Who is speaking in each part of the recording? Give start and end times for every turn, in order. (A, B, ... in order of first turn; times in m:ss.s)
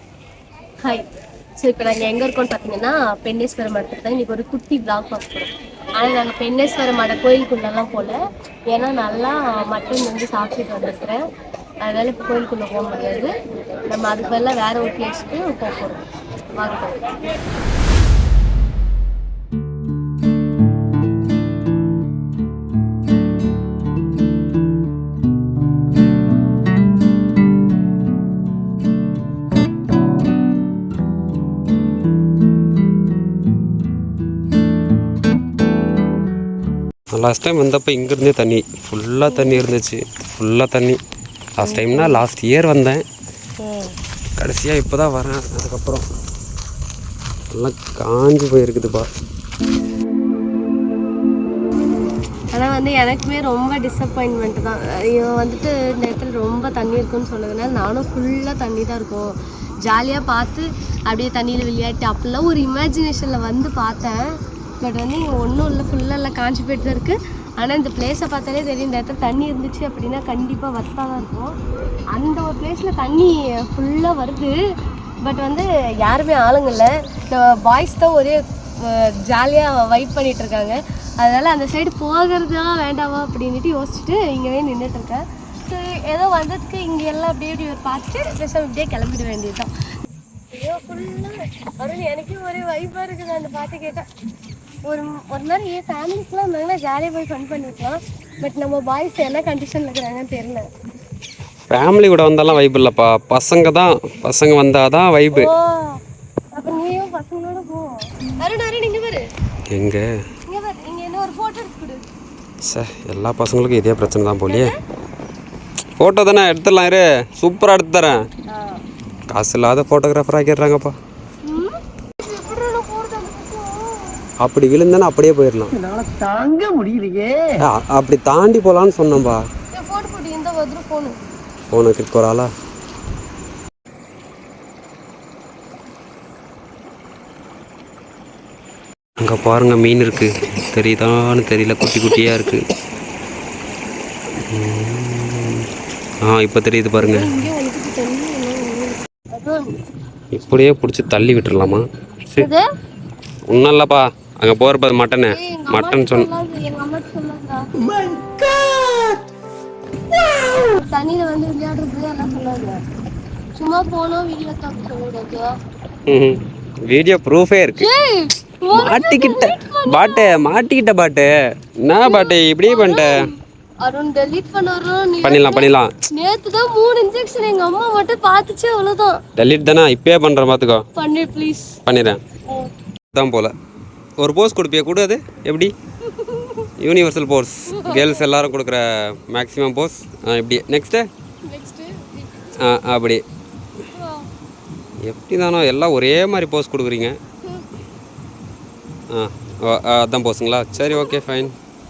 0:01.6-0:08.2 A
0:08.7-0:11.2 A
0:11.8-0:13.3 A
0:13.9-0:16.0 A
0:16.6-0:17.2 A
0:37.1-0:41.0 B
0:39.3-0:39.6 A
0:41.6-0:43.0 B
0:41.6-0:42.2 A
0:43.6-0:43.9 A
0:44.4-0:46.0 B
0:47.5-0:49.1 B
0:52.5-0:59.3 A
0:59.8-1:04.2 A
1:04.8-1:11.5 A
1:12.1-1:14.5 A
1:15.2-1:29.7 A
1:30.5-1:34.0 A
1:34.8-1:40.6 A
1:41.7-1:45.5 B
1:45.3-1:46.0 A
1:46.5-1:49.2 A
1:49.7-1:50.0 B
1:50.5-1:52.0 A
1:52.6-1:54.7 B
1:54.5-1:54.7 A
1:56.0-1:58.2 B
1:58.5-1:58.8 A
1:59.3-2:00.9 B
2:01.4-2:04.2 A
2:04.4-2:05.8 B
2:05.7-2:07.6 C
2:07.6-2:09.4 B
2:09.7-2:11.2 A
2:11.7-2:12.5 B
2:19.2-2:22.6 B
2:24.4-2:25.7 B
2:26.2-2:27.5 B
2:27.0-2:29.8 A
2:30.3-2:32.5 B
2:32.4-2:32.6 A
2:33.5-2:36.3 B
2:35.3-2:37.7 A
2:37.8-2:39.2 C
2:40.5-2:42.8 A
2:43.5-2:45.5 A
2:46.1-2:47.9 B
2:47.8-2:50.4 A
2:48.7-2:51.3 B
2:51.8-2:53.2 B
2:52.0-2:59.2 A
2:55.2-2:55.9 B
2:59.4-3:00.8 B
3:00.9-3:01.8 A
3:01.8-3:02.2 B
3:03.1-3:03.5 B
3:04.2-3:05.7 B
3:06.1-3:06.6 A
3:06.8-3:11.1 B
3:07.7-3:08.2 A
3:11.5-3:12.4 A
3:12.5-3:13.2 B
3:13.9-3:14.3 A
3:15.0-3:17.2 B
3:19.1-3:21.5 B